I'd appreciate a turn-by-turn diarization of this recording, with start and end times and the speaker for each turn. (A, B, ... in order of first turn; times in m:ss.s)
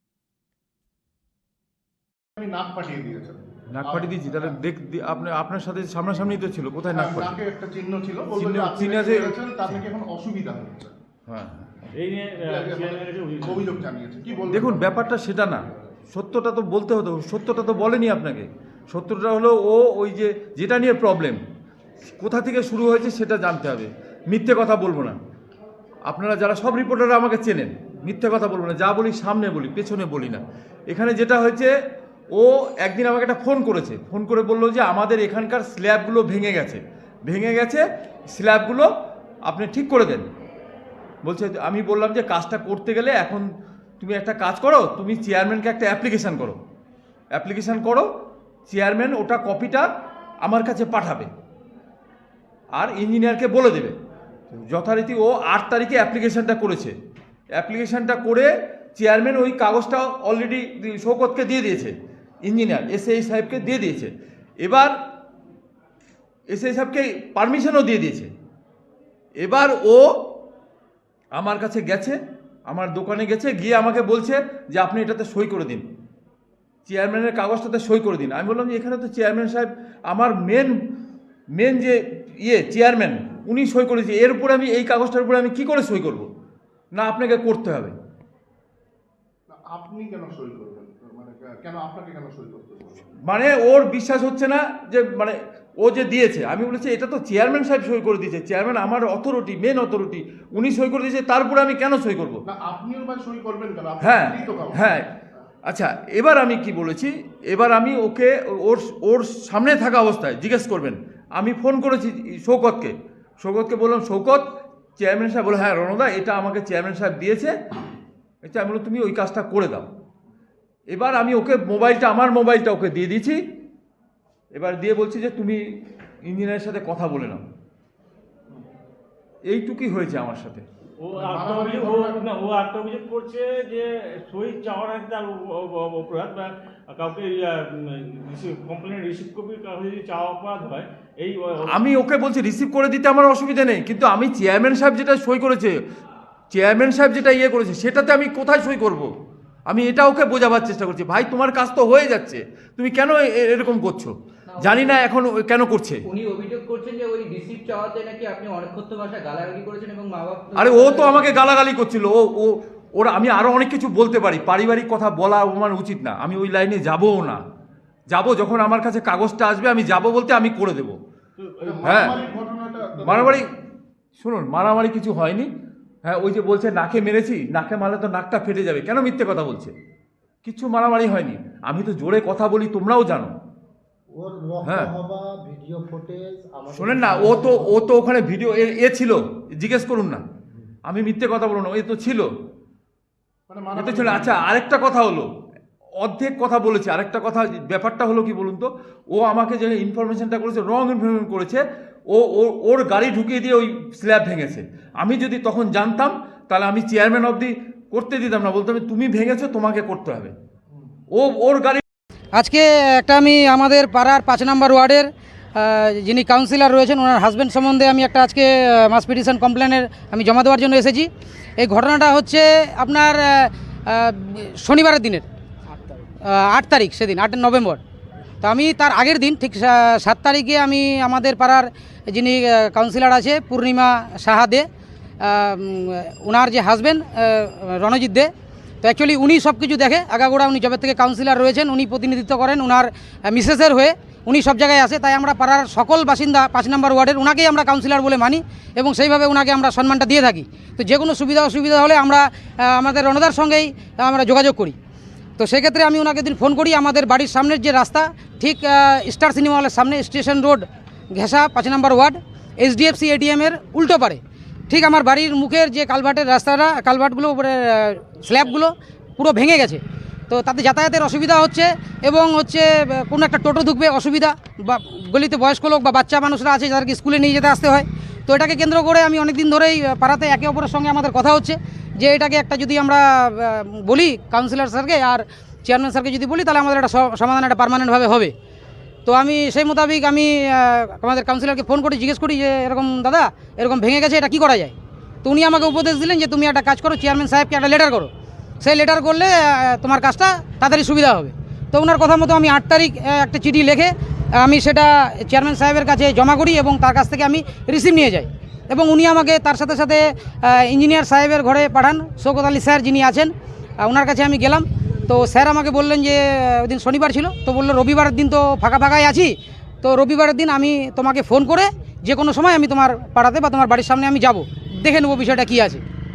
0:02.4-0:04.5 A
0:03.7-0:07.4 B
0:06.9-0:10.9 A
0:08.4-0:09.3 B
0:11.3-0:11.8 B
0:11.9-0:13.8 C
0:12.4-0:15.2 A
0:14.5-0:21.4 B
0:22.2-0:25.2 B
0:26.1-0:31.7 B
0:32.3-0:38.9 B
0:39.5-0:40.2 B
0:41.2-0:43.4 B
0:44.0-0:46.6 B
0:47.3-0:48.1 B
0:48.7-0:49.9 B
0:50.4-0:51.3 B
0:52.8-0:53.9 B
0:54.5-0:56.9 B
0:57.6-1:04.9 B
1:06.5-1:08.3 B
1:09.4-1:10.1 B
1:11.3-1:15.8 B
1:16.8-1:20.7 B
1:21.6-1:26.3 B
1:26.9-1:27.9 B
1:29.6-1:33.1 A
1:33.2-1:42.4 B
1:42.5-1:45.0 A
1:44.0-1:45.1 B
1:45.7-1:57.5 B
1:58.4-1:59.9 B
2:00.9-2:03.4 B
2:04.5-2:05.6 B
2:06.2-2:07.4 B
2:09.5-2:10.6 B
2:11.0-2:21.9 C
2:11.1-2:12.3 A
2:21.7-2:25.8 B
2:26.5-2:29.1 B
2:29.7-2:36.0 B
2:34.5-2:35.1 D
2:36.0-2:41.6 D
2:40.6-2:47.4 B
2:48.1-2:51.0 B
2:51.4-2:52.4 C
2:51.6-2:53.4 A
2:51.8-2:52.2 B
2:53.0-2:53.4 B
2:54.2-2:55.5 B
2:56.0-2:59.7 B
3:00.4-3:03.3 B
3:04.1-3:07.9 E
3:04.6-3:04.9 B
3:06.7-3:10.2 B
3:10.8-3:12.3 B
3:13.5-3:14.5 A
3:13.8-3:15.3 B
3:16.0-3:30.3 B
3:31.1-3:31.8 B
3:32.3-3:45.2 F
3:46.2-3:47.8 F
3:48.4-3:54.7 F
3:55.2-3:58.3 F
3:58.8-4:14.7 F
4:15.4-4:48.3 F
4:49.0-5:25.8 F